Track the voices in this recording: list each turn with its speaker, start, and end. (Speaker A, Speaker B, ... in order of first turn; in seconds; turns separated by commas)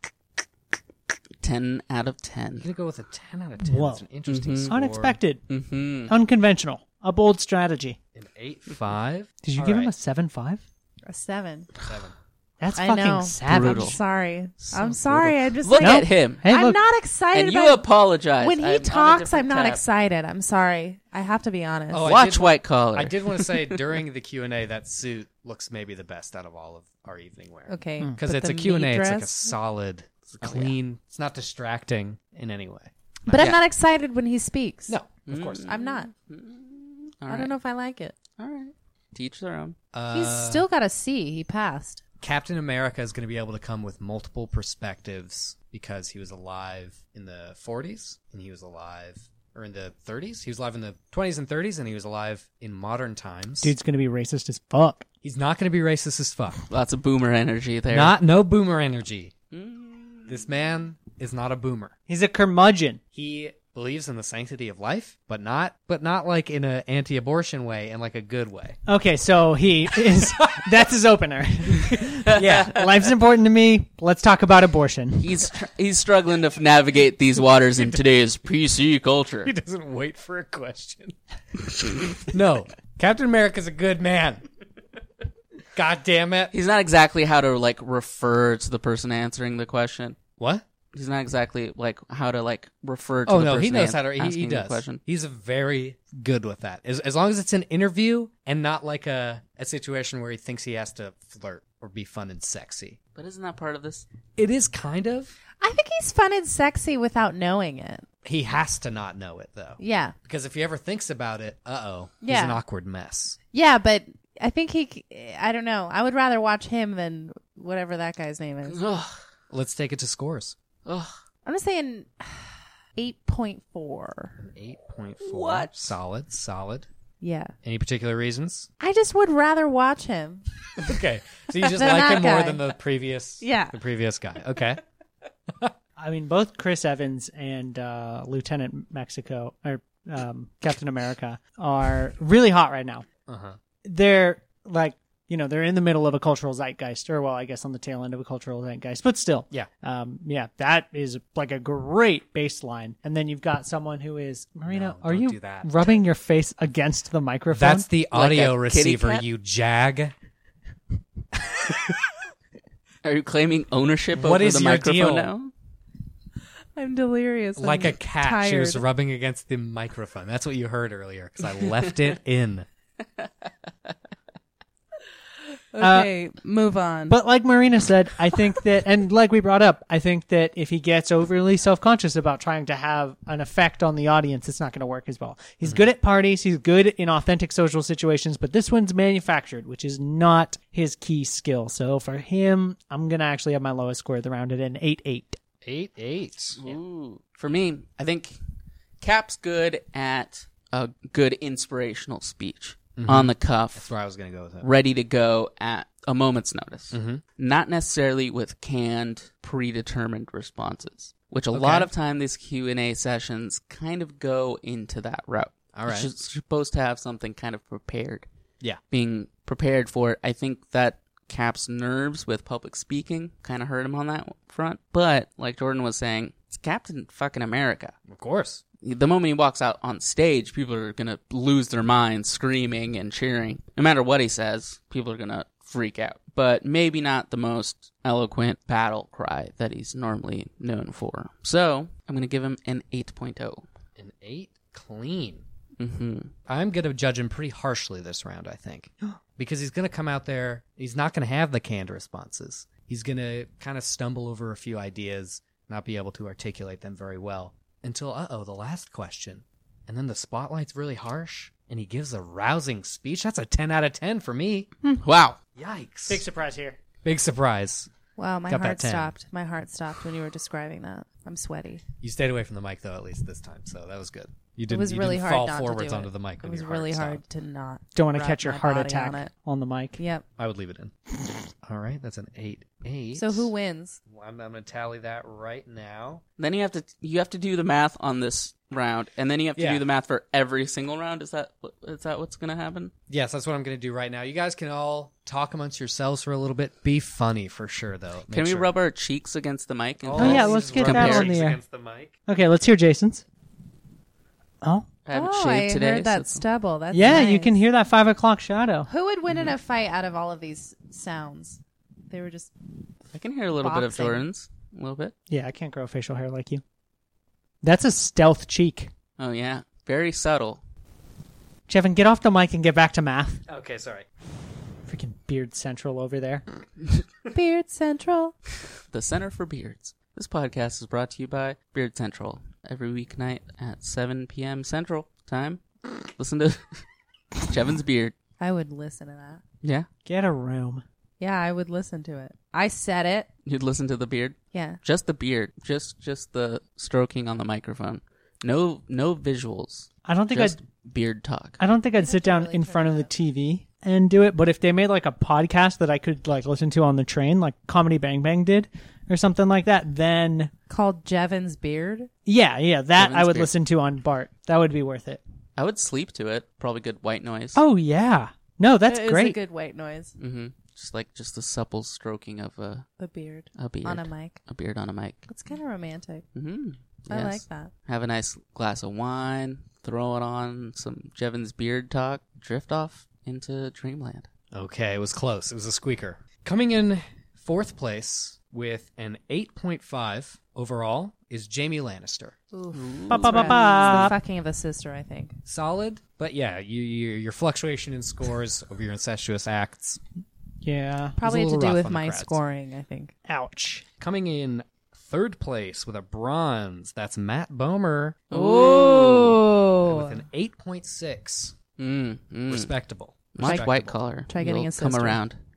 Speaker A: 1.4-2.6, Speaker B: 2.6-5.2, Speaker C: 3.6-4.0, Speaker A: 4.3-4.7, Speaker C: 4.7-5.4, Speaker A: 5.5-6.1, Speaker C: 6.1-8.0, Speaker B: 8.1-9.9, Speaker C: 9.4-10.6, Speaker D: 11.1-11.7, Speaker B: 11.8-12.1, Speaker C: 12.6-14.0, Speaker D: 12.8-17.9, Speaker A: 13.5-14.0, Speaker A: 14.7-16.4, Speaker C: 15.8-16.8, Speaker A: 17.3-19.8, Speaker D: 18.4-22.1, Speaker B: 21.9-33.5, Speaker A: 22.0-24.0, Speaker D: 27.7-29.5, Speaker A: 30.4-30.7, Speaker D: 33.3-34.9, Speaker A: 33.3-33.6, Speaker B: 34.9-35.7, Speaker A: 35.3-37.5, Speaker D: 35.6-36.1, Speaker D: 37.3-38.1, Speaker A: 38.4-39.8, Speaker B: 39.9-40.6, Speaker D: 40.1-42.0, Speaker B: 42.2-53.7, Speaker C: 53.6-55.0, Speaker B: 55.2-56.6, Speaker A: 56.7-58.1, Speaker B: 57.9-59.3, Speaker A: 59.5-60.4, Speaker B: 60.3-61.9, Speaker C: 62.1-63.0, Speaker B: 63.1-68.8, Speaker C: 68.9-75.3, Speaker B: 70.2-70.7, Speaker B: 72.2-72.8, Speaker A: 72.3-72.8, Speaker A: 75.2-79.5, Speaker B: 79.4-81.1, Speaker B: 82.2-84.4, Speaker B: 85.7-86.5, Speaker A: 86.5-90.2, Speaker B: 90.4-90.6, Speaker A: 90.9-95.0, Speaker B: 93.3-103.0, Speaker A: 103.2-104.0, Speaker B: 104.4-105.3, Speaker D: 105.6-108.0, Speaker B: 108.2-113.4, Speaker D: 109.8-110.1, Speaker D: 112.2-112.6, Speaker D: 113.5-118.8, Speaker A: 118.6-119.2, Speaker B: 119.5-120.5, Speaker A: 120.8-121.1, Speaker D: 121.4-124.4, Speaker B: 124.4-126.9, Speaker A: 125.2-125.7, Speaker D: 127.2-127.5, Speaker B: 127.6-128.7, Speaker D: 128.8-130.4, Speaker B: 130.8-134.8, Speaker D: 131.6-132.7, Speaker D: 133.4-133.8, Speaker C: 136.0-143.1, Speaker B: 143.3-143.6, Speaker C: 143.8-157.9, Speaker B: 154.7-155.8, Speaker B: 157.5-160.1, Speaker A: 158.1-159.2, Speaker A: 163.0-165.5, Speaker B: 164.1-165.3, Speaker D: 166.7-168.8, Speaker B: 167.6-172.7, Speaker D: 175.7-177.2, Speaker C: 175.8-176.1, Speaker C: 177.1-195.4, Speaker B: 195.6-196.7, Speaker A: 196.6-198.4, Speaker A: 199.0-203.9, Speaker B: 202.9-204.7, Speaker A: 204.6-218.3, Speaker B: 206.9-207.2, Speaker B: 211.5-211.9, Speaker B: 215.7-216.1, Speaker A: 218.9-227.9, Speaker B: 228.1-228.6, Speaker A: 228.8-243.7, Speaker B: 244.0-245.4, Speaker A: 245.8-246.3, Speaker B: 246.5-264.7, Speaker A: 265.0-265.4, Speaker B: 265.6-266.2, Speaker C: 266.1-266.8, Speaker B: 267.0-267.9, Speaker D: 268.1-271.8, Speaker B: 268.5-269.1, Speaker B: 272.0-277.2, Speaker D: 274.7-279.3, Speaker C: 277.9-280.0, Speaker D: 280.0-280.2, Speaker B: 280.4-280.9, Speaker B: 281.6-283.5, Speaker D: 283.1-284.0, Speaker B: 284.1-286.2, Speaker A: 286.4-292.9, Speaker B: 289.6-289.8, Speaker B: 293.1-298.7, Speaker A: 298.3-301.4, Speaker B: 300.0-302.1, Speaker C: 300.1-301.6, Speaker C: 302.3-303.2, Speaker C: 304.6-304.9, Speaker A: 305.0-306.4, Speaker D: 305.1-307.6, Speaker C: 306.9-308.9, Speaker D: 308.9-312.5, Speaker A: 313.1-315.1, Speaker D: 313.6-314.2, Speaker C: 315.3-316.6, Speaker C: 317.6-318.9, Speaker A: 319.2-320.6, Speaker C: 321.7-323.4, Speaker B: 323.5-324.1, Speaker C: 324.9-326.4, Speaker D: 327.3-328.3, Speaker A: 328.9-338.1, Speaker D: 338.4-339.4, Speaker C: 340.1-340.8, Speaker D: 341.2-343.3, Speaker A: 343.4-351.6, Speaker D: 344.5-344.8, Speaker C: 350.1-350.6, Speaker C: 351.6-360.5, Speaker D: 352.0-353.1, Speaker D: 360.7-362.1, Speaker C: 362.2-365.2, Speaker A: 363.0-363.5, Speaker A: 365.6-367.6, Speaker C: 367.5-369.4, Speaker D: 368.9-370.1, Speaker A: 370.2-372.9, Speaker D: 373.0-374.4, Speaker A: 373.5-375.2, Speaker D: 375.3-376.2, Speaker A: 376.3-384.3, Speaker D: 377.1-377.7, Speaker B: 384.5-392.4, Speaker D: 392.5-395.4, Speaker A: 392.7-394.1, Speaker C: 393.1-394.2, Speaker B: 395.4-400.0, Speaker C: 400.6-401.2, Speaker D: 401.2-403.1, Speaker B: 401.2-402.4, Speaker C: 403.2-403.8, Speaker B: 404.0-408.2, Speaker A: 408.3-409.4, Speaker D: 408.3-410.2, Speaker B: 409.8-411.6, Speaker A: 411.8-412.7, Speaker B: 412.5-414.0, Speaker A: 413.3-415.4, Speaker D: 413.4-413.7, Speaker D: 414.3-415.2